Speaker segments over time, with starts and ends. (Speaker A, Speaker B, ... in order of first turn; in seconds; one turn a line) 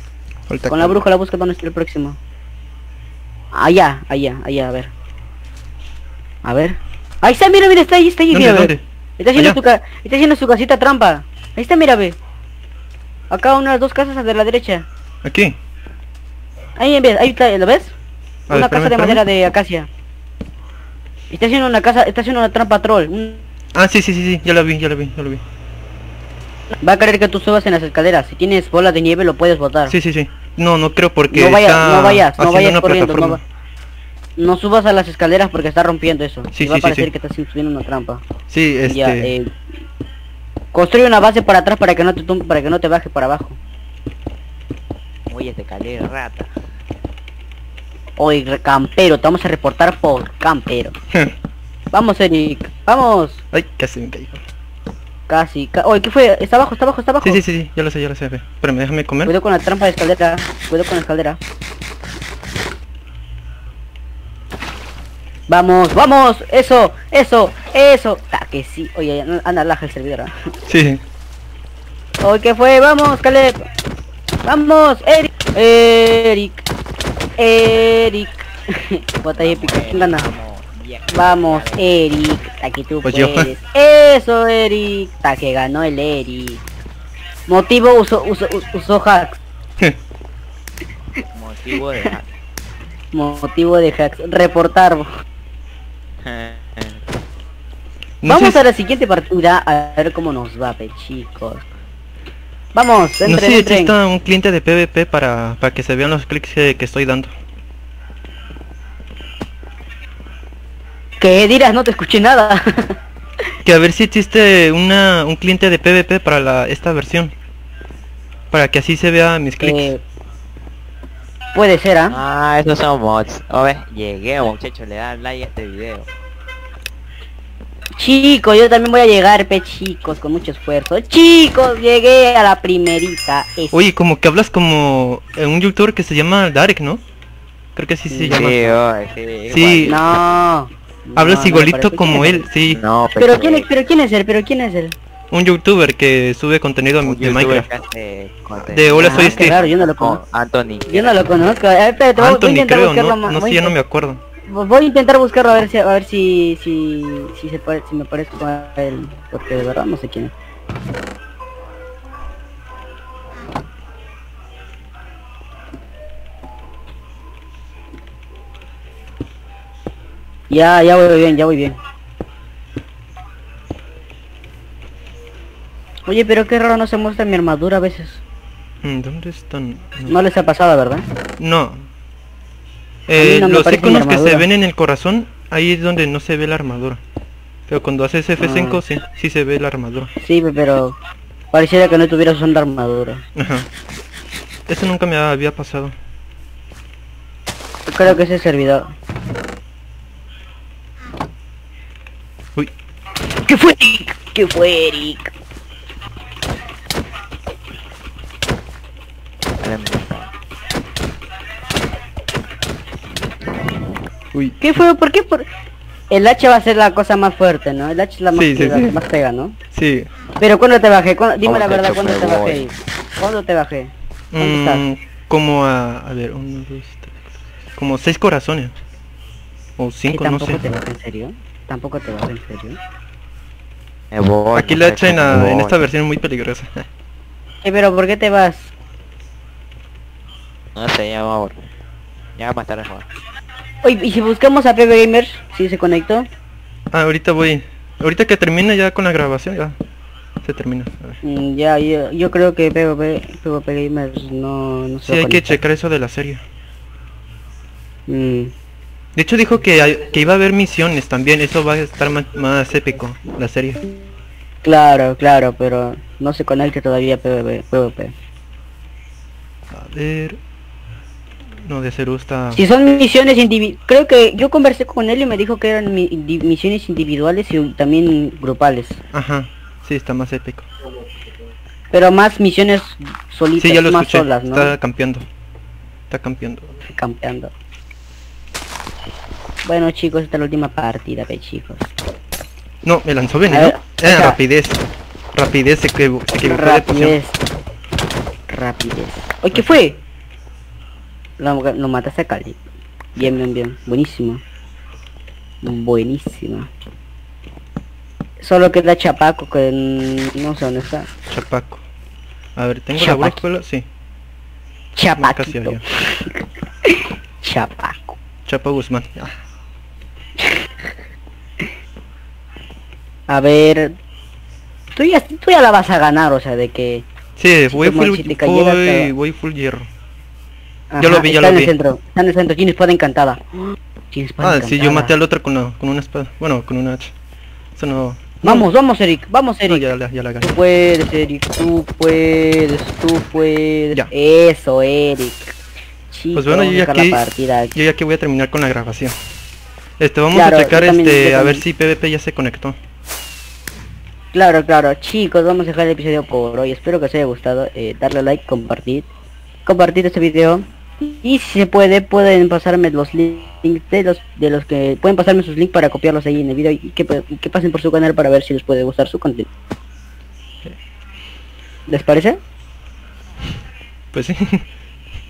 Speaker A: 0.5-1.0
Speaker B: 0.7-2.2
Speaker B: 3.6-4.9
Speaker B: 6.4-12.2
Speaker A: 8.3-8.8
Speaker B: 13.3-14.9
Speaker A: 15.2-15.6
Speaker B: 16.8-17.9
Speaker A: 18.5-19.2
Speaker B: 18.5-19.9
Speaker B: 21.3-23.4
Speaker A: 23.7-25.4
Speaker B: 26.8-29.9
Speaker A: 29.9-33.4
Speaker B: 31.3-33.4
Speaker B: 34.4-38.2
Speaker A: 36.5-37.1
Speaker A: 38.5-39.3
Speaker B: 38.9-39.5
Speaker B: 40.7-43.6
Speaker C: 45.3-46.5
Speaker B: 48.2-51.0
Speaker B: 51.9-53.4
Speaker A: 53.5-54.4
Speaker B: 55.3-57.4
Speaker A: 57.2-59.3
Speaker B: 59.3-61.4
Speaker B: 65.5-70.3
Speaker A: 70.7-71.0
Speaker B: 72.2-73.6
Speaker B: 74.4-76.6
Speaker B: 77.4-80.3
Speaker C: 79.4-82.0
Speaker B: 81.1-86.6
Speaker A: 83.0-83.5
Speaker B: 87.5-89.4
Speaker C: 91.3-92.3
Speaker B: 93.1-95.1
Speaker C: 96.2-97.0
Speaker A: 98.2-98.6
Speaker B: 98.3-101.7
Speaker B: 102.7-104.0
Speaker A: 103.2-107.3
Speaker B: 111.2-112.6
Speaker A: 113.6-117.3
Speaker A: 118.5-119.9
Speaker B: 119.6-120.0
Speaker B: 121.5-122.2
Speaker C: 122.1-126.1
Speaker B: 128.0-133.8
Speaker A: 133.7-137.0
Speaker A: 137.8-138.8
Speaker B: 138.1-138.5
Speaker C: 138.3-140.1
Speaker A: 139.5-140.0
Speaker B: 139.9-142.5
Speaker A: 141.2-142.8
Speaker C: 142.7-143.7
Speaker B: 143.2-145.0
Speaker A: 145.3-147.7
Speaker C: 147.0-151.3
Speaker A: 148.6-149.6
Speaker B: 149.0-150.2
Speaker B: 150.9-153.7
Speaker A: 152.2-154.2
Speaker B: 154.5-160.3
Speaker B: 170.5-171.8
Speaker B: 176.1-178.2
Speaker A: 178.8-180.2
Speaker B: 180.1-181.1
Speaker A: 181.4-181.9
Speaker A: 183.1-187.0
Speaker B: 183.2-184.5
Speaker A: 187.7-190.1
Speaker B: 188.4-188.8
Speaker B: 190.2-191.0
Speaker B: 191.5-193.2
Speaker A: 193.4-193.7
Speaker A: 194.7-195.9
Speaker B: 197.9-198.9
Speaker B: 203.5-205.3
Speaker C: 209.6-210.3
Speaker A: 214.3-214.6
Speaker B: 214.6-215.5
Speaker B: 216.1-219.6
Speaker A: 218.3-219.0
Speaker A: 219.7-220.1
Speaker B: 220.4-224.8
Speaker C: 221.4-222.7
Speaker A: 224.3-228.8
Speaker A: 229.8-230.6
Speaker B: 230.1-232.8
Speaker C: 234.1-235.8
Speaker A: 234.5-236.8
Speaker B: 237.6-238.7
Speaker C: 240.8-241.7
Speaker C: 242.4-243.1
Speaker B: 243.8-246.2
Speaker A: 246.9-249.8
Speaker A: 250.4-251.2
Speaker B: 251.2-255.6
Speaker A: 255.1-256.4
Speaker B: 258.1-258.5
Speaker A: 259.1-263.8
Speaker B: 264.6-268.1
Speaker A: 269.7-270.4
Speaker A: 271.6-272.6
Speaker B: 272.5-279.0
Speaker A: 279.1-280.7
Speaker B: 281.9-284.8
Speaker A: 283.6-285.3
Speaker A: 286.1-286.8
Speaker B: 286.9-287.5
Speaker B: 289.6-291.9
Speaker A: 292.9-294.8
Speaker B: 293.5-294.4
Speaker A: 295.3-297.2
Speaker B: 296.4-297.4
Speaker B: 298.5-300.0
Speaker B: 301.4-302.6
Speaker B: 303.2-304.4
Speaker B: 305.6-306.7
Speaker B: 308.4-311.1
Speaker A: 311.3-311.8
Speaker A: 312.6-313.9
Speaker B: 313.0-313.4
Speaker B: 314.9-318.2
Speaker A: 315.1-315.8
Speaker A: 318.5-319.3
Speaker B: 320.4-320.7
Speaker B: 323.3-323.9
Speaker B: 325.0-327.1
Speaker A: 327.4-329.9
Speaker B: 327.7-329.1
Speaker B: 330.9-335.1
Speaker A: 331.0-331.7
Speaker A: 334.4-337.1
Speaker A: 337.8-338.7
Speaker B: 338.4-339.8
Speaker A: 339.7-340.5
Speaker B: 340.4-345.6
Speaker B: 346.1-347.8
Speaker A: 346.3-347.2
Speaker A: 347.8-349.2
Speaker A: 350.0-352.8
Speaker B: 350.3-351.6
Speaker B: 354.3-359.1
Speaker B: 359.7-369.5
Speaker B: 371.9-372.4
Speaker A: 374.1-374.6